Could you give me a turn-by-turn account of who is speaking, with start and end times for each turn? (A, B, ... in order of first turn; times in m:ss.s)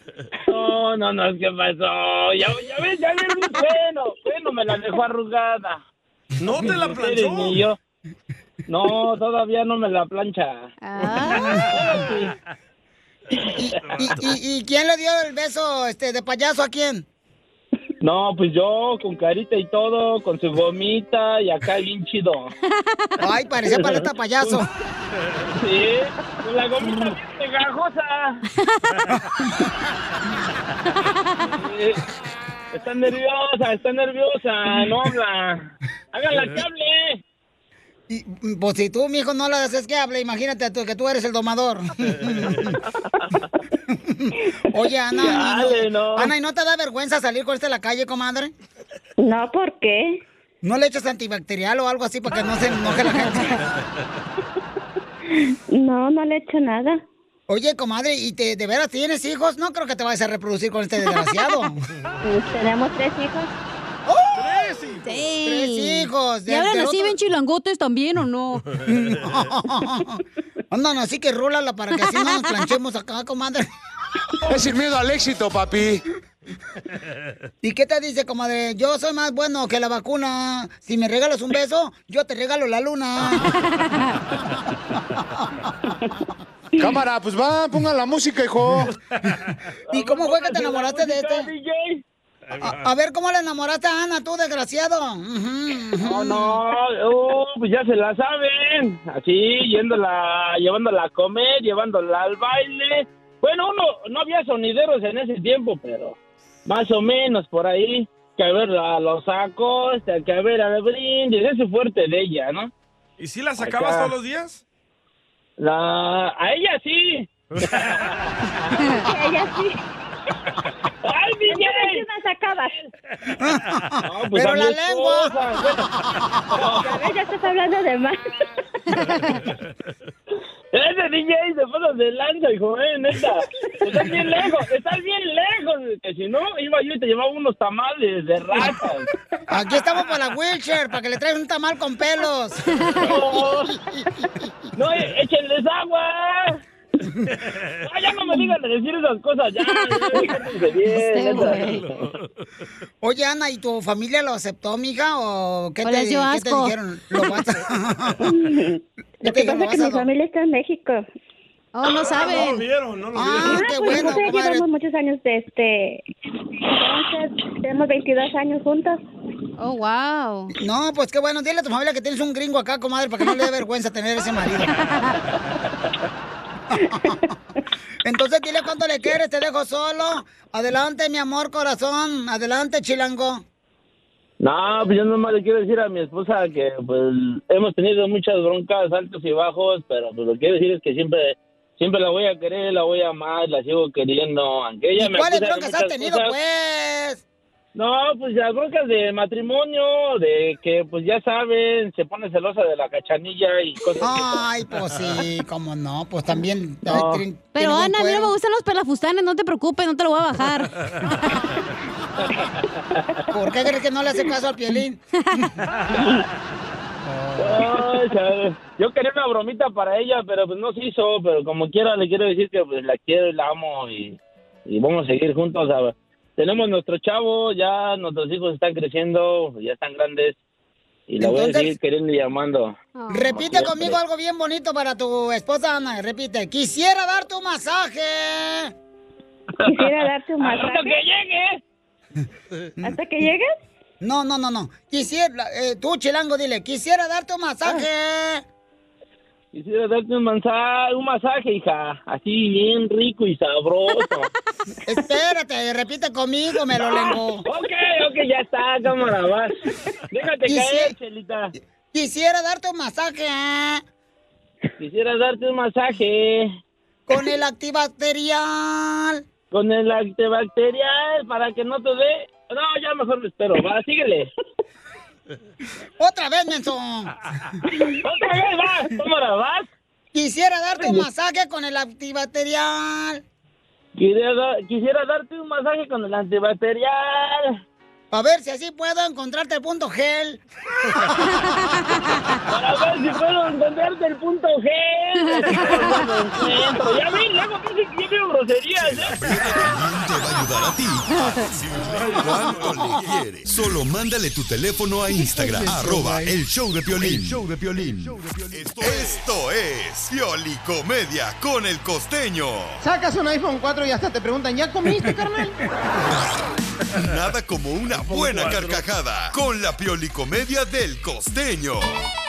0:00.5-0:05.8 A
0:06.4-0:07.6 B
0:06.6-0:07.8 A
0:08.7-0:10.7 A
0:10.8-0:11.5 C
0:11.5-0:12.3 B
0:11.7-0:12.3 A
0:13.4-0:17.0 D
0:13.7-0:14.2 B
0:18.0-0:22.5 A
0:23.2-0:24.7 D
0:23.7-0:24.6 A
0:25.5-0:28.4 A
0:28.6-0:29.0 C
0:31.0-0:31.3 C
0:31.5-0:32.0 A
0:32.7-0:37.2 A
0:38.1-0:42.7 D
0:44.1-0:48.5 D
0:45.2-0:46.3 A
0:49.2-0:50.2 E
0:50.6-0:53.6 D
0:55.3-0:57.0 E
0:57.5-1:01.8 D
1:02.2-1:03.5 E
1:04.3-1:05.2 B
1:05.0-1:08.8 C
1:05.4-1:07.2 D
1:08.9-1:10.2 D
1:10.7-1:13.6 D
1:12.0-1:12.5 C
1:14.5-1:16.0 F
1:17.6-1:23.5 D
1:23.6-1:24.1 C
1:26.8-1:28.8 F
1:28.8-1:29.5 B
1:29.9-1:32.0 A
1:29.9-1:31.5 D
1:32.5-1:32.8 B
1:32.6-1:36.6 D
1:36.0-1:52.7 A
1:53.2-1:54.6 B
1:53.6-1:54.1 A
1:55.6-1:58.9 A
1:57.5-1:58.2 B
1:58.9-1:59.8 E
2:01.0-2:02.0 A
2:01.5-2:02.8 E
2:04.0-2:05.9 A
2:04.3-2:05.4 D
2:06.6-2:06.9 A
2:06.7-2:08.6 E
2:10.7-2:19.1 A
2:19.5-2:24.3 D
2:23.0-2:23.7 A
2:24.8-2:26.6 A
2:27.8-2:31.8 A
2:29.7-2:30.2 C
2:30.9-2:31.9 C
2:31.6-2:32.3 B
2:33.0-2:38.3 D
2:35.8-2:36.7 C
2:38.2-2:41.1 E
2:39.2-2:40.0 D
2:41.7-2:42.6 C
2:42.0-2:43.7 B
2:43.2-2:44.6 D
2:43.4-2:46.0 E
2:46.6-2:49.0 E
2:49.6-2:50.5 C
2:50.5-2:54.7 D
2:58.0-3:03.4 D
3:04.4-3:16.3 A
3:15.0-3:17.2 D
3:17.7-3:24.4 A
3:24.0-3:28.3 D
3:26.8-3:27.2 A
3:27.5-3:30.8 C
3:32.3-3:33.2 A
3:33.3-3:35.0 D
3:37.0-3:37.8 D
3:37.4-3:50.4 A
3:51.1-3:54.0 A
3:51.2-3:51.7 D
3:53.0-3:53.3 C
3:53.1-3:58.7 D
3:59.6-4:01.6 A
3:59.6-4:01.0 E
4:02.8-4:03.5 E
4:04.0-4:08.4 D
4:09.5-4:14.3 A
4:14.8-4:17.4 D
4:16.8-4:19.6 A
4:20.1-4:21.5 A
4:20.4-4:20.9 D
4:21.9-4:23.8 D
4:24.8-4:26.5 A
4:27.1-4:29.2 D
4:29.5-4:34.3 A
4:36.0-4:37.1 D
4:37.7-4:39.7 A
4:40.1-4:43.2 D
4:40.8-4:41.0 A
4:44.0-4:47.6 A
4:48.1-4:50.4 D
4:51.3-4:51.5 C
4:52.5-4:59.7 A
4:55.2-4:56.0 C
4:58.8-5:12.8 G
5:02.1-5:02.4 B
5:05.4-5:06.1 H
5:12.8-5:15.6 H
5:16.9-5:21.9 G
5:17.9-5:18.8 B